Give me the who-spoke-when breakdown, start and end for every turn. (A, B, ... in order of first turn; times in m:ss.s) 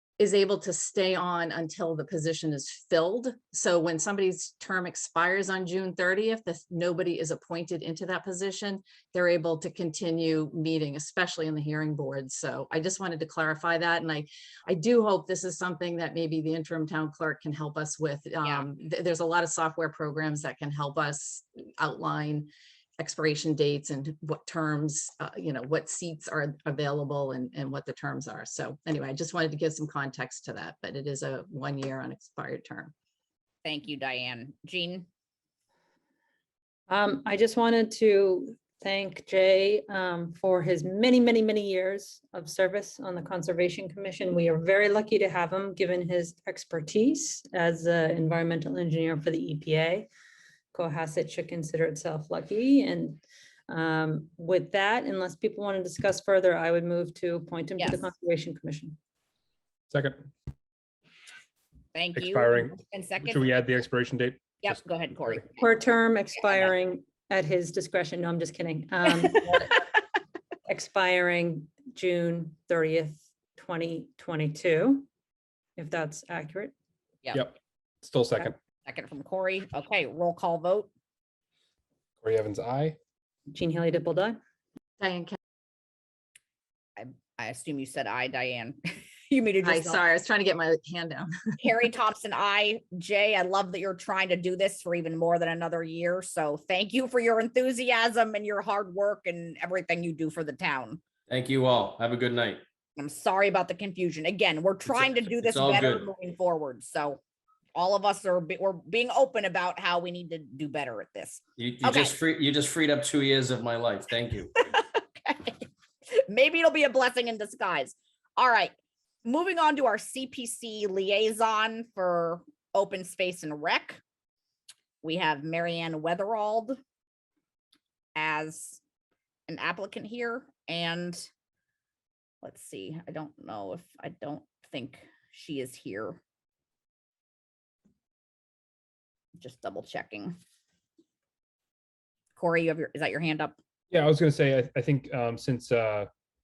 0:00.2-0:32.9 A
0:33.6-0:35.0 B
0:36.9-0:50.1 C
0:50.7-0:59.0 C
0:57.8-0:58.1 B
0:59.9-1:00.2 D
1:01.9-1:03.4 B
1:02.2-1:04.8 D
1:04.6-1:05.7 B
1:05.6-1:09.8 C
1:06.4-1:06.7 B
1:10.7-1:15.1 C
1:15.8-1:16.7 C
1:17.3-1:18.6 D
1:18.8-1:20.9 B
1:22.2-1:23.0 D
1:23.5-1:24.4 C
1:25.0-1:25.4 A
1:27.0-1:28.8 B
1:29.3-1:30.0 B
1:29.6-1:31.3 A
1:31.6-1:41.0 B
1:41.3-1:42.6 E
1:43.0-1:47.2 B
1:44.9-1:46.1 E
1:47.8-1:52.2 B
1:51.6-1:54.5 E
1:54.7-1:55.6 B
1:56.3-1:58.7 B
1:59.2-2:04.0 B
2:05.0-2:06.8 B
2:08.1-2:08.8 B
2:09.5-2:11.2 B
2:12.4-2:16.2 B
2:19.4-2:20.3 B
2:22.4-2:23.6 B
2:23.9-2:26.1 D